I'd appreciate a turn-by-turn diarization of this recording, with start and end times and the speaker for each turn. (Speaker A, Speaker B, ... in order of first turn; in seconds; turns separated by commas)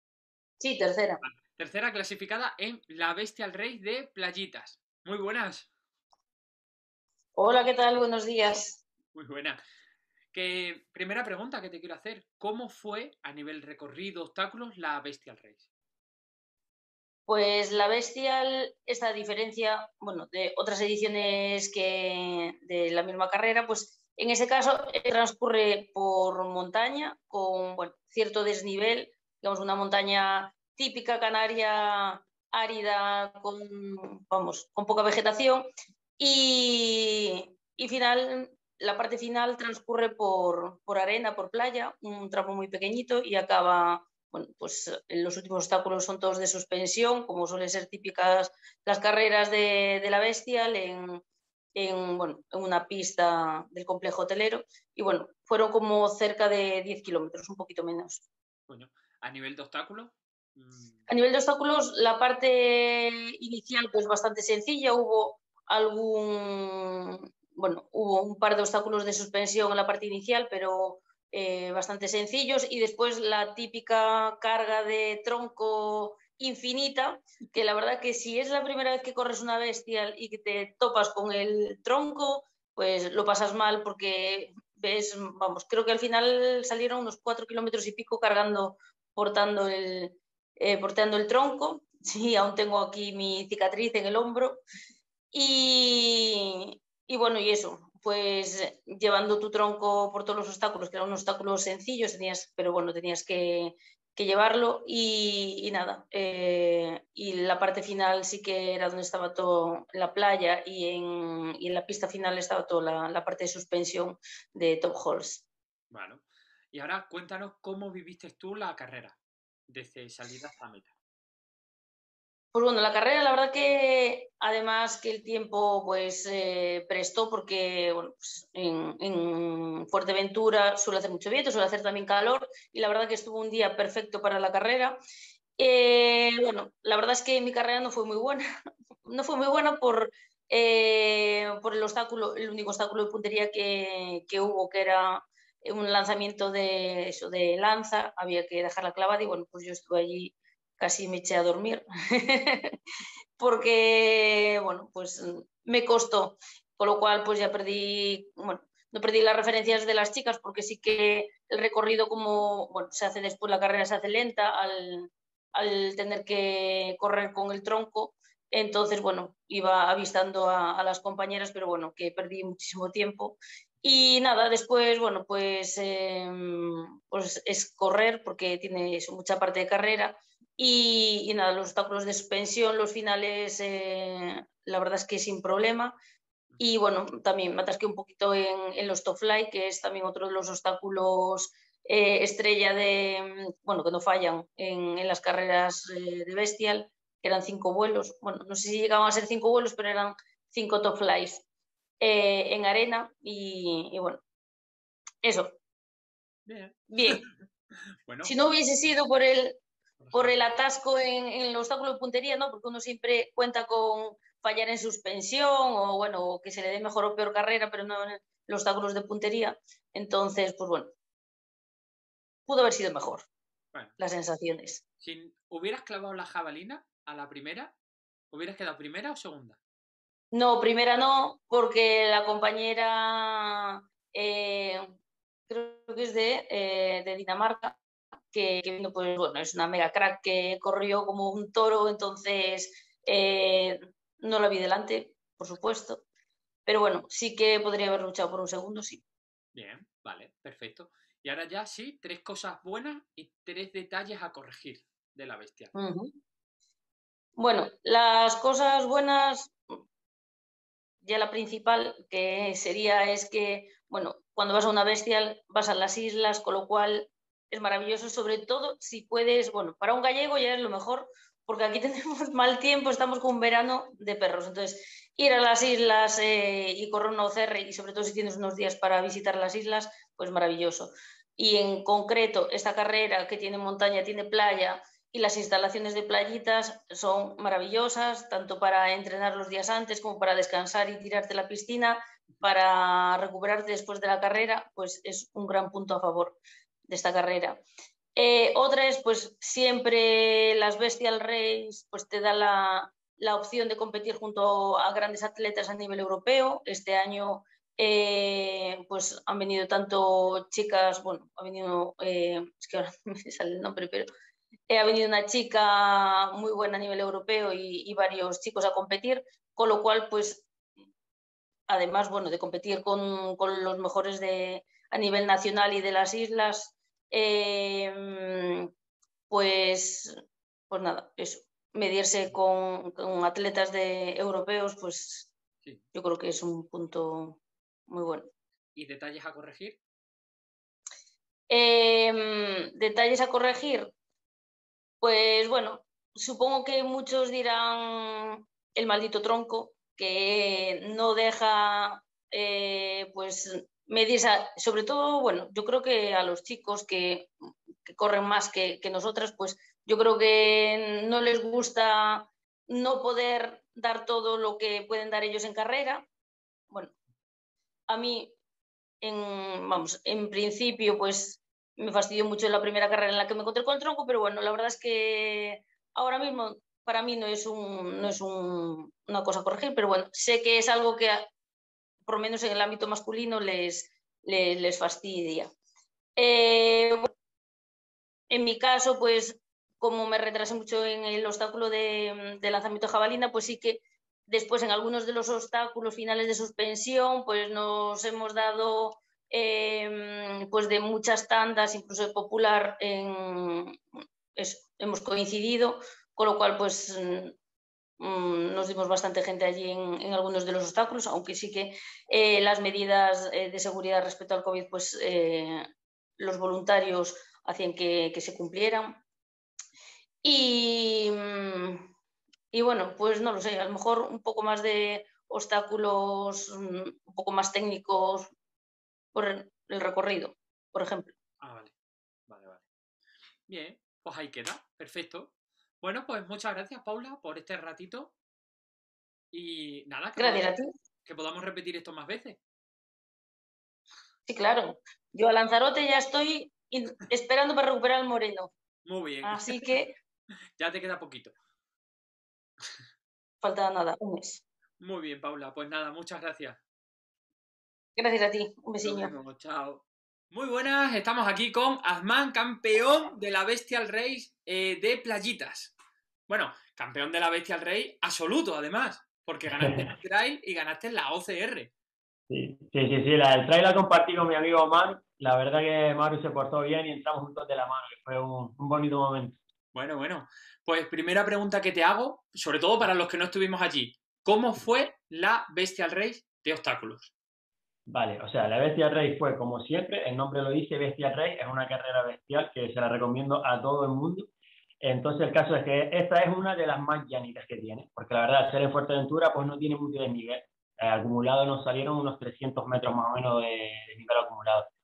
Speaker A: 0.6-1.2, Speaker B: 1.2-5.7, Speaker A: 7.4-8.8, Speaker B: 9.1-9.6, Speaker B: 10.3-15.7, Speaker A: 17.3-35.7, Speaker A: 36.2-51.2, Speaker A: 51.8-58.2, Speaker B: 58.7-61.0, Speaker A: 61.1-94.6, Speaker A: 95.3-115.5, Speaker B: 115.9-119.2, Speaker B: 119.7-120.9, Speaker A: 122.5-135.0, Speaker A: 135.6-138.4, Speaker A: 139.1-152.8, Speaker A: 153.4-185.9, Speaker A: 186.6-201.4, Speaker A: 202.0-204.2, Speaker A: 205.2-205.6, Speaker B: 206.5-207.3, Speaker A: 206.9-207.2, Speaker B: 208.1-208.3, Speaker A: 208.2-209.6, Speaker B: 210.0-210.4, Speaker A: 210.1-220.9, Speaker A: 222.5-223.3, Speaker A: 224.0-224.8, Speaker B: 225.0-227.8, Speaker B: 228.3-229.6, Speaker A: 230.3-234.8, Speaker A: 235.5-237.8, Speaker A: 238.3-246.0, Speaker A: 246.7-249.0, Speaker B: 249.5-255.7, Speaker A: 255.8-256.2, Speaker A: 257.4-259.6, Speaker A: 261.0-297.6, Speaker A: 298.2-314.1, Speaker A: 314.7-320.5, Speaker A: 321.7-328.7, Speaker A: 329.3-330.1, Speaker A: 330.7-335.3, Speaker A: 335.9-338.3, Speaker B: 338.8-339.8, Speaker A: 341.5-343.9, Speaker A: 345.0-357.3, Speaker A: 357.9-366.1, Speaker A: 367.9-368.4, Speaker A: 369.0-381.3, Speaker A: 382.1-385.5, Speaker A: 386.2-387.1, Speaker A: 388.3-403.8, Speaker A: 404.4-407.4, Speaker A: 408.0-415.7, Speaker A: 416.2-419.0, Speaker A: 420.2-421.9, Speaker A: 422.5-428.3, Speaker A: 429.1-431.1, Speaker B: 431.4-431.7, Speaker B: 432.3-432.6, Speaker B: 433.5-438.1, Speaker B: 439.3-440.5, Speaker A: 440.2-440.7, Speaker B: 441.1-442.4, Speaker A: 444.3-448.5, Speaker B: 448.9-449.7, Speaker A: 449.2-449.9, Speaker B: 450.6-451.3, Speaker A: 453.4-454.4, Speaker B: 454.8-456.6, Speaker A: 458.0-459.1, Speaker B: 458.8-465.7, Speaker B: 466.3-471.7, Speaker C: 469.6-469.9, Speaker C: 472.3-479.4, Speaker B: 479.7-487.1, Speaker C: 487.9-494.3, Speaker C: 494.8-504.7